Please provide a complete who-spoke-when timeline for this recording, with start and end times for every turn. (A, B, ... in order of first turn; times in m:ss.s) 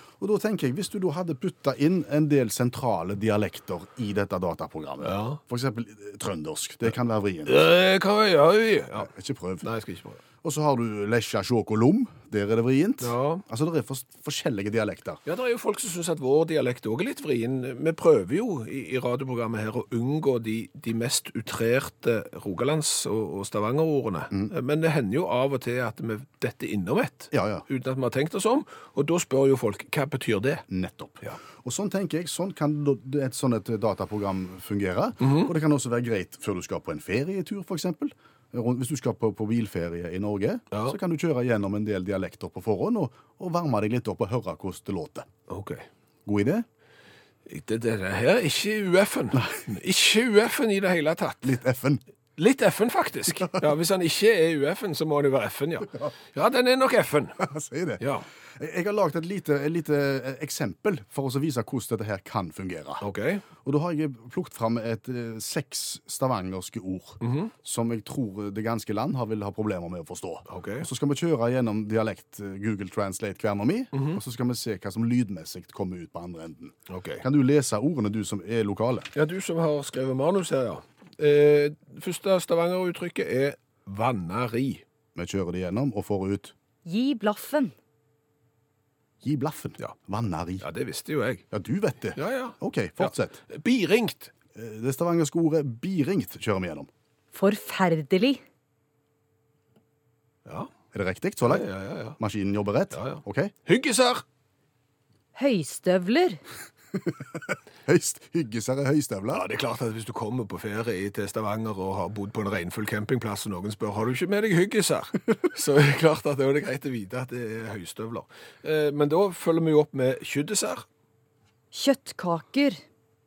0:00.2-0:07.6 A
0:05.0-0:05.4 B
0:07.4-0:09.1 B
0:09.0-0:09.6 A
0:09.6-0:10.2 B
0:10.4-0:15.2 A
0:13.0-0:13.4 B
0:15.2-0:30.6 B
0:27.3-0:27.6 A
0:30.7-0:45.3 A
0:35.2-0:35.5 B
0:45.5-0:45.8 B
0:46.2-0:46.6 A
0:47.4-0:51.5 B
0:49.3-0:49.6 A
0:51.4-0:52.0 A
0:52.4-0:57.4 B
0:57.4-0:58.0 A
0:58.0-0:58.3 B
0:58.5-1:03.0 A
1:03.0-1:03.4 B
1:03.6-1:19.1 A
1:07.2-1:07.5 B
1:10.5-1:10.9 B
1:13.9-1:14.2 B
1:16.9-1:17.2 B
1:19.1-1:24.8 B
1:25.2-1:26.5 A
1:26.8-1:27.7 C
1:29.2-1:30.6 A
1:30.6-1:31.4 B
1:31.5-1:33.4 A
1:32.1-1:34.3 B
1:34.5-1:36.9 A
1:37.3-1:38.4 C
1:40.9-1:43.5 A
1:41.4-1:42.2 B
1:42.9-1:44.2 B
1:45.3-1:46.4 C
1:47.0-1:49.4 A
1:49.3-2:00.8 B
2:01.7-2:02.8 C